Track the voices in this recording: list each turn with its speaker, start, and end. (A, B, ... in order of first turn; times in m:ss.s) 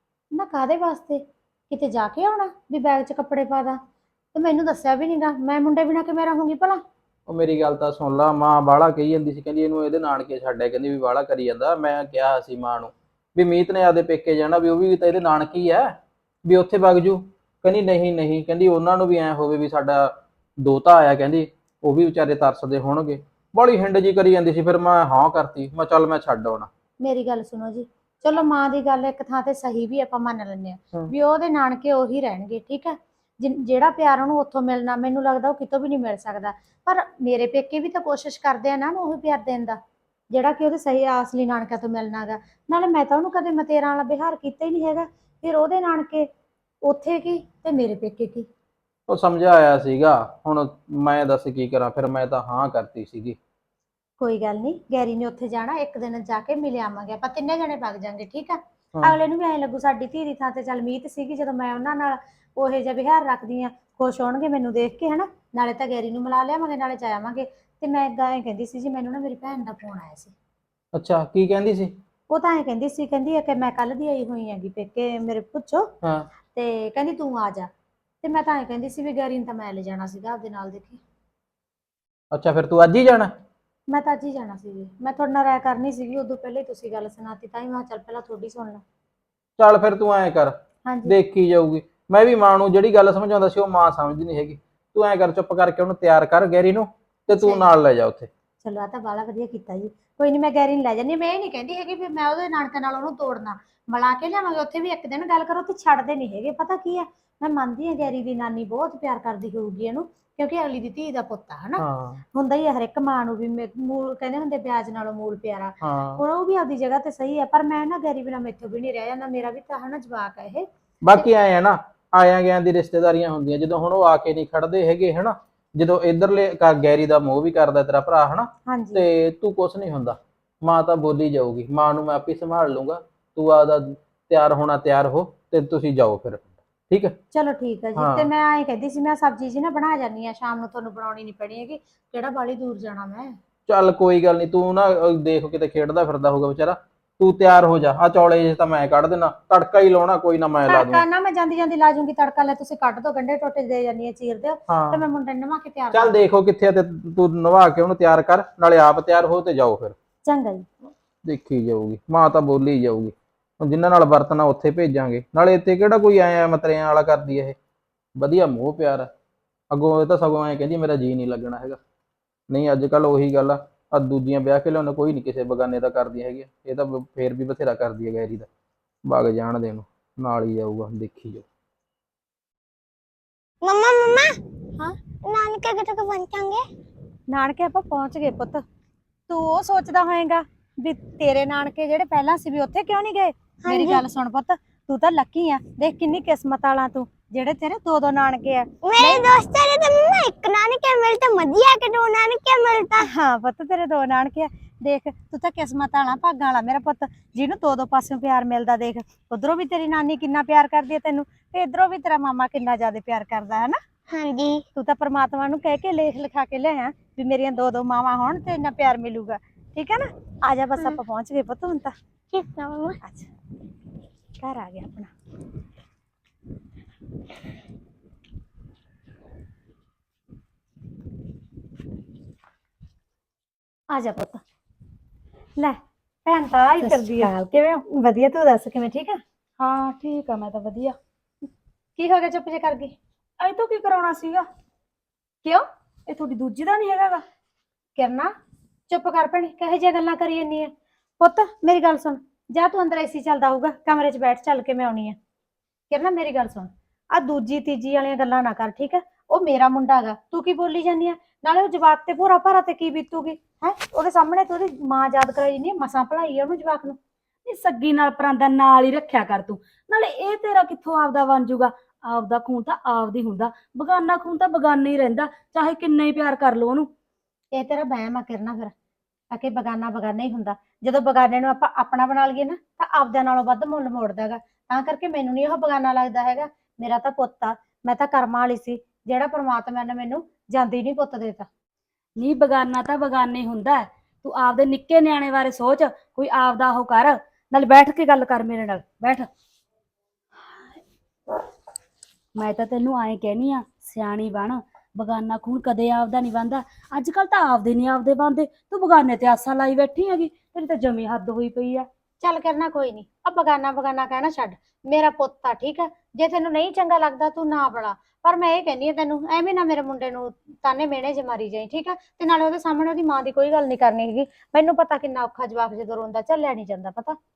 0:00.3-0:03.8 A
0:04.3-0:06.8 A
0:07.3-0:16.0 B
0:16.5-0:26.7 B
0:27.0-0:39.8 A
0:40.3-0:46.3 A
0:46.8-0:48.5 A
0:49.1-0:53.4 B
0:54.2-1:10.3 A
1:10.9-1:11.9 B
1:12.3-1:15.9 A
1:16.0-1:16.3 B
1:16.5-1:17.7 A
1:18.2-1:21.0 A
1:22.3-1:23.3 B
1:23.9-1:28.8 A
1:29.6-1:30.5 B
1:30.8-1:31.2 A
1:31.1-1:38.3 B
1:37.3-1:37.6 A
1:38.6-2:01.3 A
1:51.8-1:52.2 B
1:55.8-1:56.2 B
2:01.0-2:17.2 B
2:08.7-2:09.0 A
2:17.3-2:23.4 A
2:18.0-2:18.3 B
2:23.7-2:31.0 B
2:30.7-2:36.2 A
2:34.7-2:35.0 B
2:35.9-2:40.0 B
2:40.3-2:40.7 A
2:41.2-2:47.6 B
2:48.2-2:49.1 B
2:49.7-2:51.8 B
2:52.5-2:58.5 B
2:59.1-3:01.4 B
3:03.6-3:04.4 C
3:05.2-3:06.6 C
3:07.3-3:08.6 A
3:09.3-3:19.2 A
3:13.6-3:14.0 C
3:18.8-3:23.1 C
3:23.0-3:33.8 A
3:34.1-3:34.6 C
3:34.8-3:42.0 A
3:42.3-3:43.0 C
3:43.0-3:43.3 A
3:44.4-3:45.1 A
3:53.9-3:54.4 A
3:55.6-3:59.2 A
3:56.8-3:57.3 D
3:59.6-4:01.0 D
4:02.0-4:02.9 A
4:03.4-4:04.5 D
4:06.1-4:07.2 D
4:08.0-4:08.3 A
4:08.9-4:15.2 A
4:15.9-4:27.0 A
4:27.4-4:36.9 D
4:37.5-4:38.7 A
4:39.3-4:51.5 A
4:52.2-4:59.3 D
5:00.5-5:00.8 D
5:02.4-5:11.9 D
5:12.2-5:27.2 A